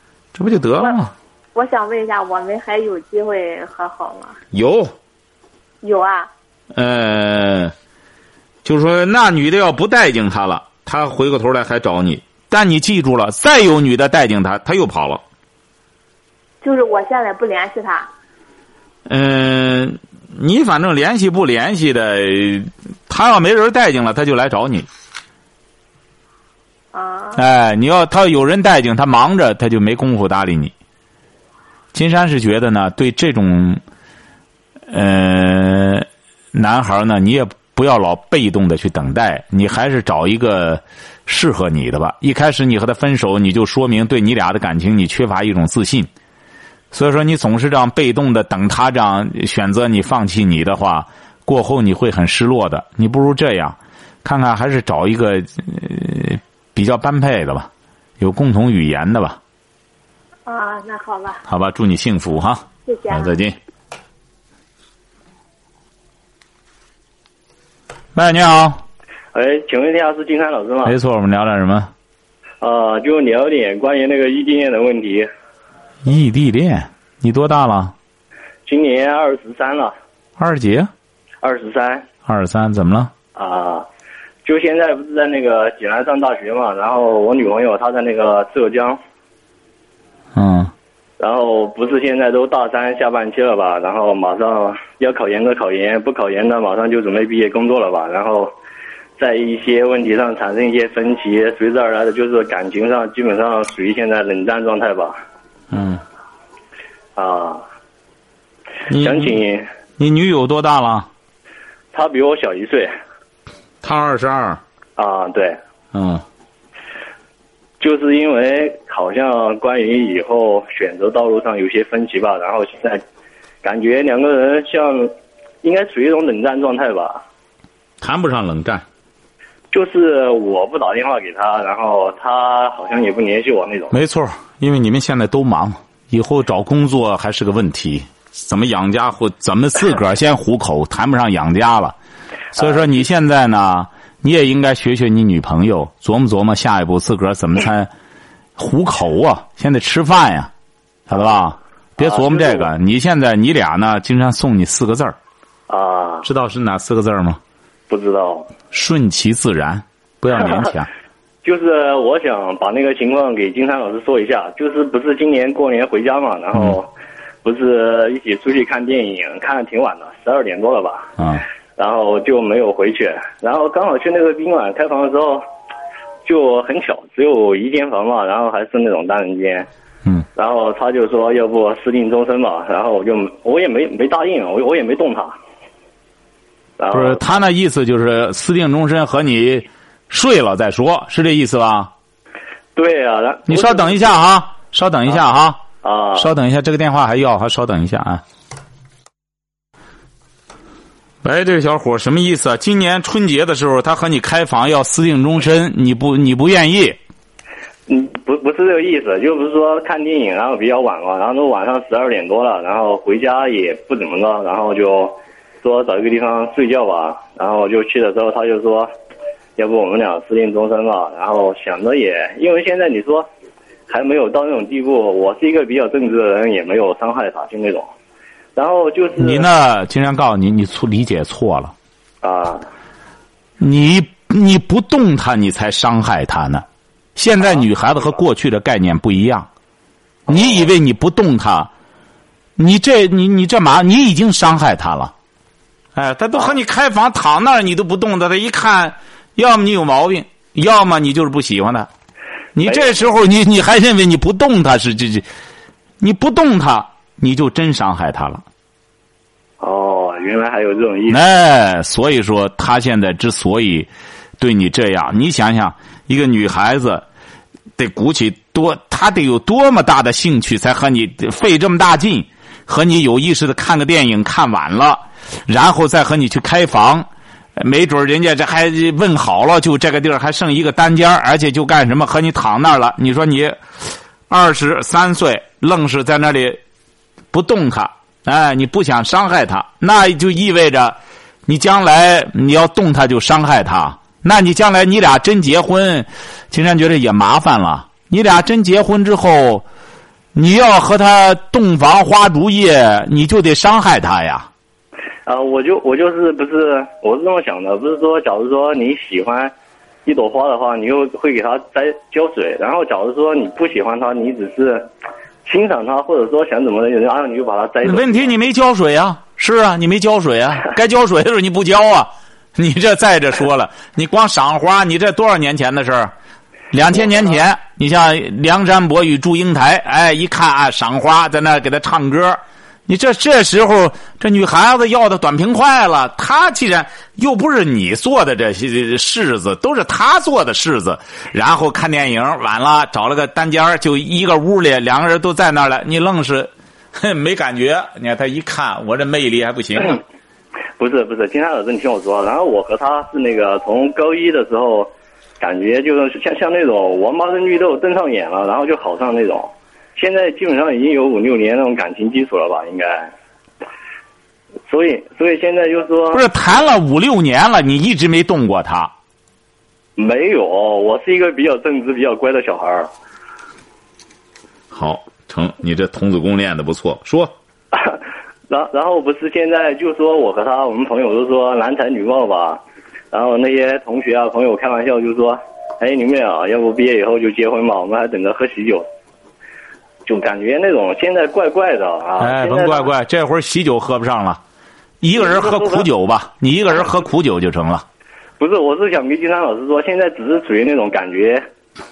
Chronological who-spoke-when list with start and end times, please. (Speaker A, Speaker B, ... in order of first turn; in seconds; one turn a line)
Speaker A: 0.3-1.1
Speaker B: 1.5-4.4
Speaker A: 4.5-4.9
Speaker B: 5.8-6.3
Speaker A: 6.7-7.7
Speaker A: 8.6-15.2
Speaker B: 16.6-18.1
Speaker A: 19.1-24.9
Speaker B: 26.9-27.4
Speaker A: 27.4-30.7
Speaker A: 31.9-33.8
Speaker A: 34.9-46.1
Speaker A: 46.9-59.4
Speaker B: 60.5-61.4
Speaker A: 61.5-63.6
Speaker B: 62.8-63.3
Speaker A: 68.1-68.8
Speaker C: 69.3-71.0
Speaker A: 70.8-71.9
Speaker C: 72.6-75.3
Speaker A: 76.0-77.9
Speaker C: 78.7-79.9
Speaker A: 80.4-80.9
Speaker C: 81.4-82.1
Speaker A: 82.2-83.1
Speaker C: 83.3-83.9
Speaker C: 84.4-89.0
Speaker A: 90.3-90.7
Speaker C: 91.2-98.5
Speaker C: 99.2-105.2
Speaker A: 105.7-106.0
Speaker C: 107.2-107.6
Speaker A: 108.9-109.4
Speaker C: 109.0-109.6
Speaker A: 110.0-111.1
Speaker C: 111.9-112.9
Speaker A: 113.8-114.6
Speaker C: 115.0-115.6
Speaker A: 115.9-116.2
Speaker C: 117.8-123.0
Speaker C: 123.6-127.2
Speaker A: 128.0-128.8
Speaker C: 129.7-133.9
Speaker A: 133.9-141.9
Speaker A: 142.5-147.9
Speaker A: 148.6-150.5
Speaker A: 151.1-155.2
Speaker C: 152.0-152.7
Speaker C: 155.7-156.3
Speaker A: 156.2-157.4
Speaker C: 157.9-158.5
Speaker A: 158.7-160.9
Speaker C: 161.4-166.9
Speaker C: 167.4-171.1
Speaker A: 171.2-171.4
Speaker C: 171.8-175.4
Speaker C: 176.2-179.7
Speaker C: 180.3-185.3
Speaker C: 186.8-187.2
Speaker A: 186.9-191.9
Speaker C: 192.8-194.0
Speaker A: 193.5-195.6
Speaker C: 195.8-196.3
Speaker A: 196.2-198.2
Speaker A: 201.2-207.0
Speaker C: 207.9-218.9
Speaker C: 219.6-223.3
Speaker C: 223.9-227.9
Speaker C: 228.6-229.4
Speaker A: 229.2-231.7
Speaker C: 232.2-232.6
Speaker A: 233.6-239.5
Speaker A: 240.3-241.7
Speaker C: 240.3-240.6
Speaker A: 242.6-245.1
Speaker A: 245.9-251.9
Speaker A: 252.6-255.3
Speaker C: 252.7-253.0
Speaker A: 256.0-258.4
Speaker C: 259.6-261.2
Speaker A: 261.1-267.0
Speaker A: 267.8-283.6
Speaker A: 284.3-286.6
Speaker A: 287.3-299.6
Speaker A: 300.3-304.5
Speaker C: 305.2-309.5
Speaker C: 310.1-314.9
Speaker C: 315.4-318.3
Speaker A: 317.8-326.1
Speaker A: 326.7-350.0
Speaker C: 350.8-363.1
Speaker C: 364.7-366.2
Speaker A: 366.1-368.9
Speaker C: 370.0-372.9
Speaker A: 374.7-377.3
Speaker C: 377.7-388.9
Speaker C: 390.1-392.9
Speaker A: 392.2-394.4
Speaker A: 395.0-397.8
Speaker C: 395.2-395.9
Speaker C: 398.4-401.4